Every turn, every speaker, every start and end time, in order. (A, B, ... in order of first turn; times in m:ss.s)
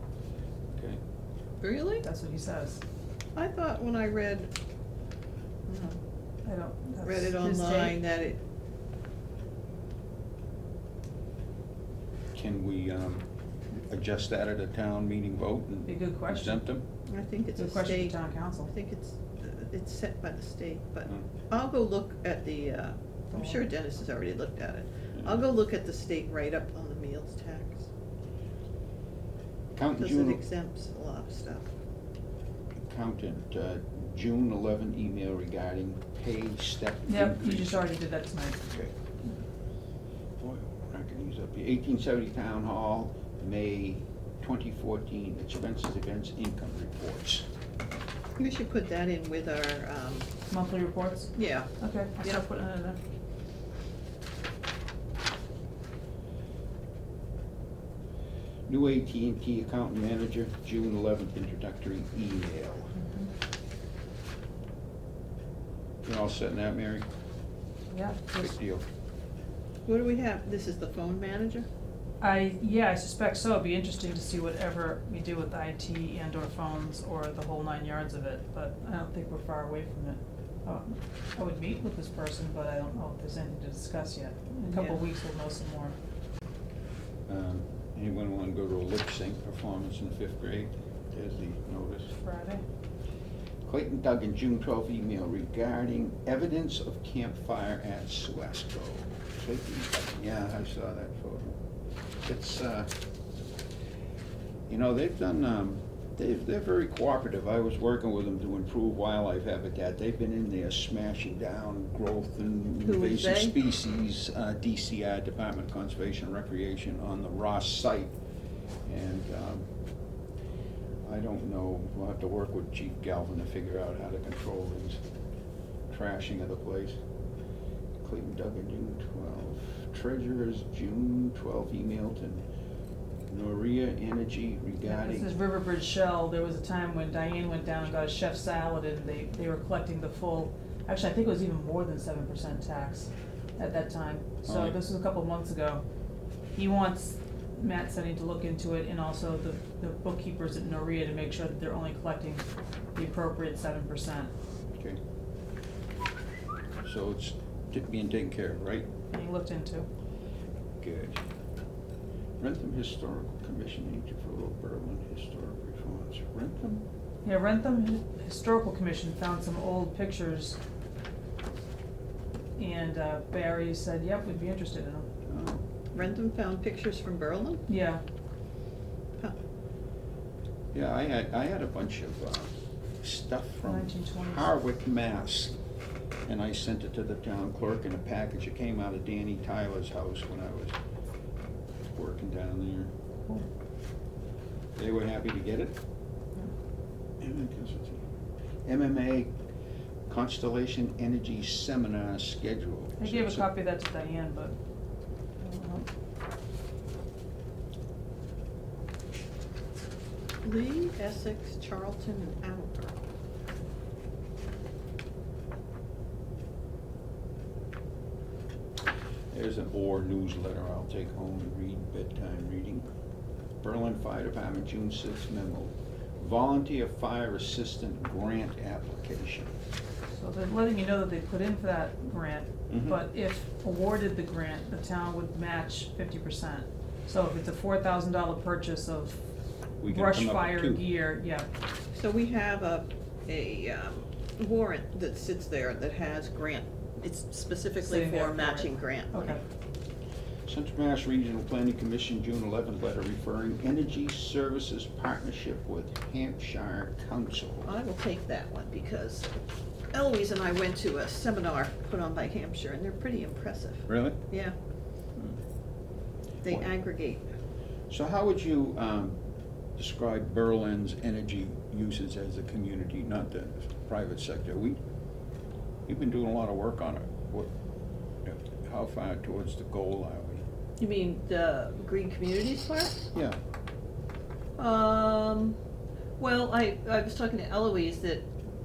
0:00.7-0:01.0 A
0:01.6-0:02.0 B
0:02.0-0:02.8 C
0:03.4-0:04.5 B
0:05.7-0:06.0 B
0:06.4-0:08.0 C
0:07.0-0:08.4 B
0:12.3-0:13.3 A
0:13.9-0:16.8 A
0:15.8-0:16.6 C
0:17.1-0:18.2 B
0:17.6-0:18.7 C
0:18.7-0:27.9 B
0:23.3-0:23.7 C
0:29.7-0:30.4 A
0:30.0-0:31.7 B
0:32.8-0:37.8 A
0:37.1-0:38.6 C
0:40.4-0:47.4 A
0:48.4-0:50.3 B
0:50.5-0:53.0 C
0:51.3-0:51.7 B
0:58.7-1:02.9 A
1:03.0-1:03.3 C
1:06.0-1:07.0 A
1:07.9-1:08.5 C
1:08.3-1:08.8 A
1:09.9-1:11.7 B
1:12.2-1:26.0 C
1:24.7-1:25.0 B
1:27.3-1:32.1 A
1:32.1-1:32.6 C
1:33.7-1:41.6 A
1:42.2-1:42.9 A
1:44.7-1:58.2 A
1:52.8-1:53.6 B
1:58.8-1:59.7 A
2:01.0-2:05.0 A
2:05.9-2:07.0 A
2:08.0-2:12.4 A
2:13.3-2:15.3 A
2:14.9-2:25.8 C
2:24.5-2:24.8 A
2:26.6-2:34.3 C
2:34.8-2:35.0 A
2:36.8-2:38.9 A
2:39.1-2:39.9 C
2:40.8-2:41.2 A
2:42.4-2:46.8 A
2:47.2-2:50.6 C
2:52.6-2:55.1 C
2:55.3-2:55.6 A
2:55.9-2:57.6 B
2:57.7-2:58.0 C
3:00.7-3:05.6 A
3:03.6-3:04.5 C
3:06.3-3:10.8 A
3:11.9-3:12.9 A
3:14.8-3:15.8 A
3:17.2-3:18.0 A
3:18.6-3:19.3 A
3:20.1-3:23.5 A
3:23.0-3:24.6 C
3:25.4-3:25.9 C
3:30.4-3:32.9 B
3:39.3-3:42.9 A
3:43.6-3:49.5 A
3:50.1-3:59.2 C
3:52.7-3:53.0 A
3:59.8-4:00.8 A
3:59.9-4:01.5 C
4:01.9-4:09.4 B
4:07.8-4:09.4 C
4:10.5-4:17.7 A
4:17.6-4:19.4 B
4:19.9-4:24.5 B
4:23.9-4:24.2 A
4:26.4-4:27.2 B
4:27.9-4:29.2 A
4:29.8-4:34.8 A
4:35.9-4:37.5 A
4:38.2-4:40.4 A
4:40.8-4:43.1 B
4:44.6-4:45.6 B
4:46.2-4:48.3 B